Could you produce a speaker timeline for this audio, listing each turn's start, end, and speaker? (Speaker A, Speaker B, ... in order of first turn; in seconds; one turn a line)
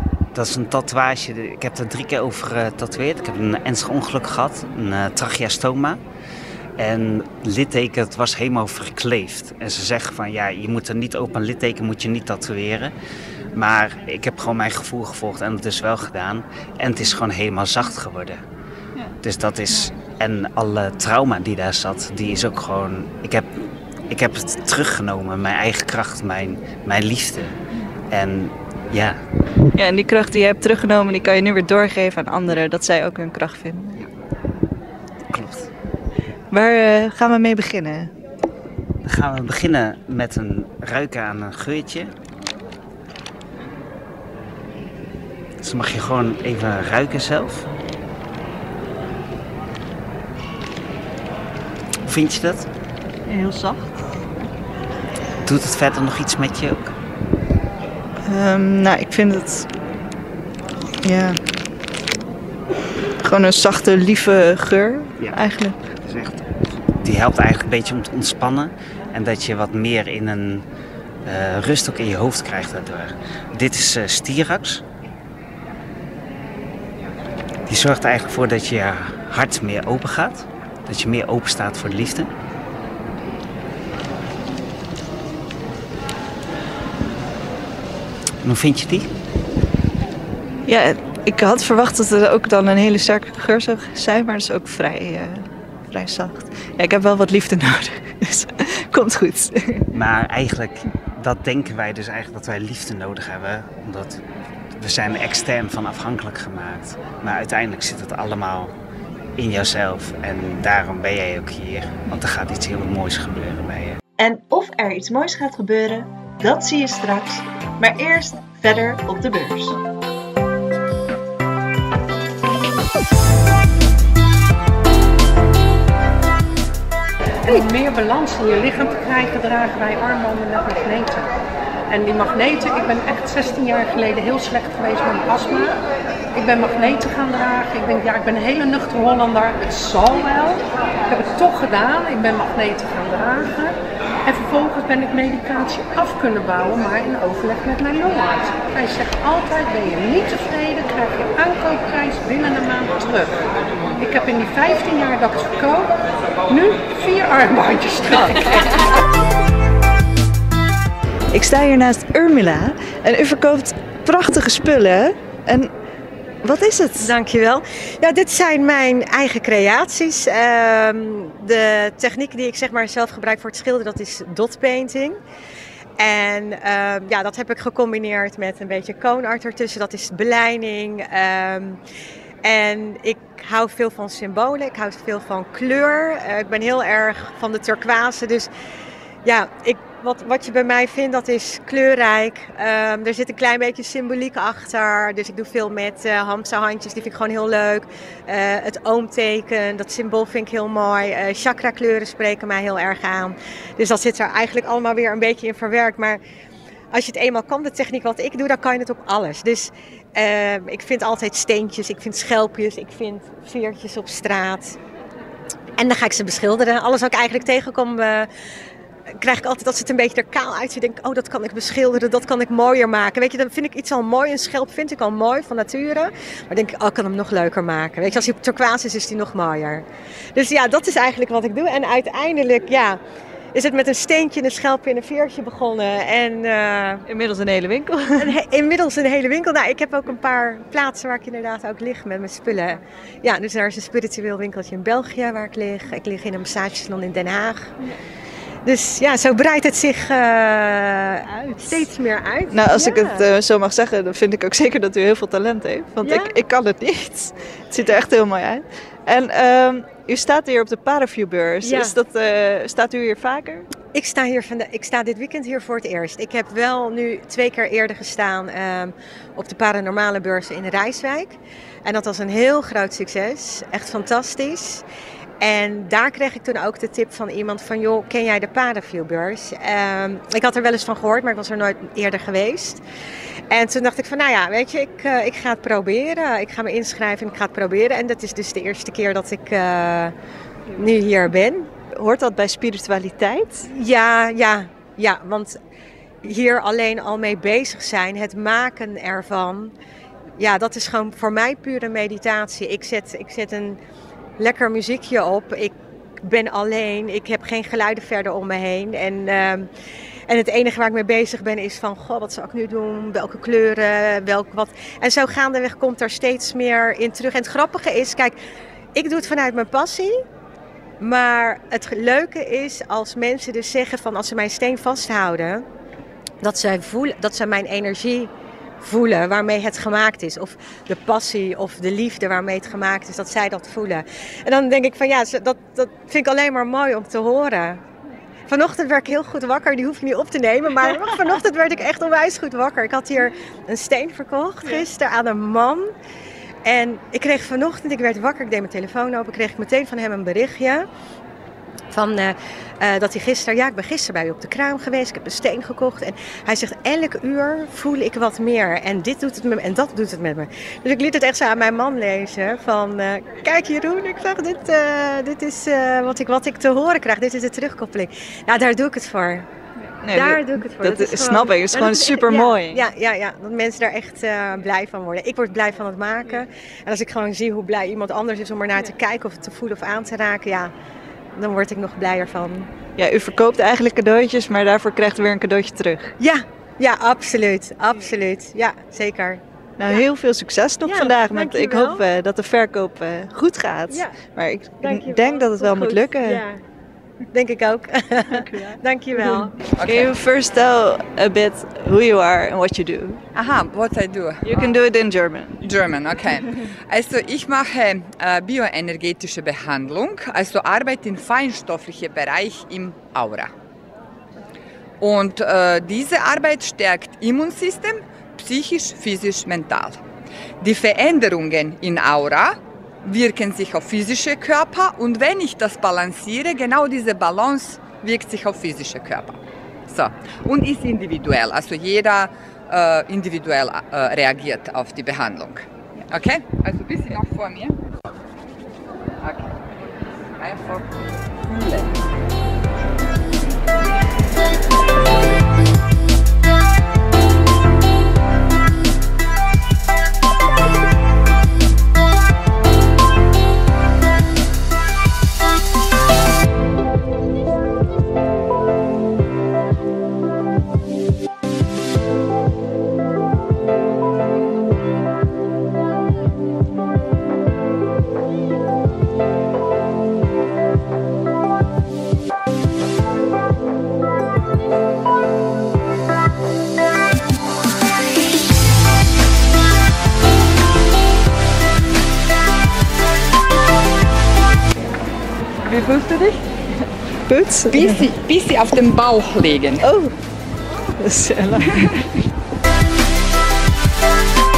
Speaker A: 0.3-6.0
Speaker A: 6.8-12.9
Speaker A: 13.5-18.4
Speaker A: 19.2-27.6
Speaker A: 28.1-29.2
Speaker B: 29.8-34.0
Speaker A: 35.3-35.7
Speaker B: 36.5-38.1
Speaker A: 39.0-42.1
Speaker A: 45.6-47.7
Speaker A: 52.1-52.7
Speaker B: 53.3-54.0
Speaker A: 55.5-56.9
Speaker B: 58.2-59.7
Speaker B: 61.0-61.4
Speaker B: 63.2-65.8
Speaker A: 66.0-66.4
Speaker A: 67.0-70.7
Speaker A: 71.2-74.8
Speaker A: 77.7-82.3
Speaker A: 88.4-89.1
Speaker B: 90.7-99.9
Speaker A: 99.9-104.2
Speaker A: 104.8-108.7
Speaker A: 109.4-114.0
Speaker B: 114.2-119.8
Speaker C: 127.5-131.3
Speaker C: 131.9-135.8
Speaker C: 136.3-153.4
Speaker C: 154.0-158.8
Speaker B: 161.3-165.7
Speaker B: 166.4-167.2
Speaker D: 167.0-175.2
Speaker D: 176.0-181.8
Speaker D: 182.4-188.5
Speaker D: 189.2-206.2
Speaker D: 206.9-214.8
Speaker D: 215.8-218.3
Speaker D: 219.2-229.8
Speaker D: 230.3-233.0
Speaker D: 233.5-237.1
Speaker B: 237.1-238.4
Speaker D: 238.2-247.7
Speaker D: 248.7-253.3
Speaker B: 252.5-263.7
Speaker D: 256.0-256.4
Speaker D: 261.6-261.9
Speaker D: 263.9-274.9
Speaker D: 275.4-282.8
Speaker D: 283.5-290.1
Speaker D: 290.7-291.7
Speaker B: 291.9-293.7
Speaker D: 293.7-295.6
Speaker D: 296.2-299.7
Speaker D: 300.4-303.8
Speaker D: 304.4-309.7
Speaker D: 310.3-318.4
Speaker D: 318.9-320.2
Speaker D: 321.0-325.6
Speaker D: 326.4-337.8
Speaker D: 338.5-345.9
Speaker D: 346.6-350.9
Speaker D: 351.9-369.5
Speaker B: 370.0-372.9
Speaker D: 370.1-380.7
Speaker D: 381.4-382.7
Speaker B: 383.0-386.1
Speaker D: 386.2-389.4
Speaker B: 389.8-396.4
Speaker D: 390.9-392.0
Speaker D: 394.8-396.6
Speaker D: 397.3-399.6
Speaker B: 398.3-403.2
Speaker E: 399.8-400.1
Speaker E: 403.3-404.8
Speaker B: 404.4-405.6
Speaker E: 405.6-413.5
Speaker E: 415.0-420.0
Speaker E: 420.6-437.8
Speaker E: 439.2-439.6
Speaker E: 440.4-441.9
Speaker E: 485.6-486.4
Speaker B: 487.3-488.1
Speaker E: 487.7-489.9
Speaker B: 489.8-490.1
Speaker B: 491.0-491.9
Speaker E: 491.7-492.1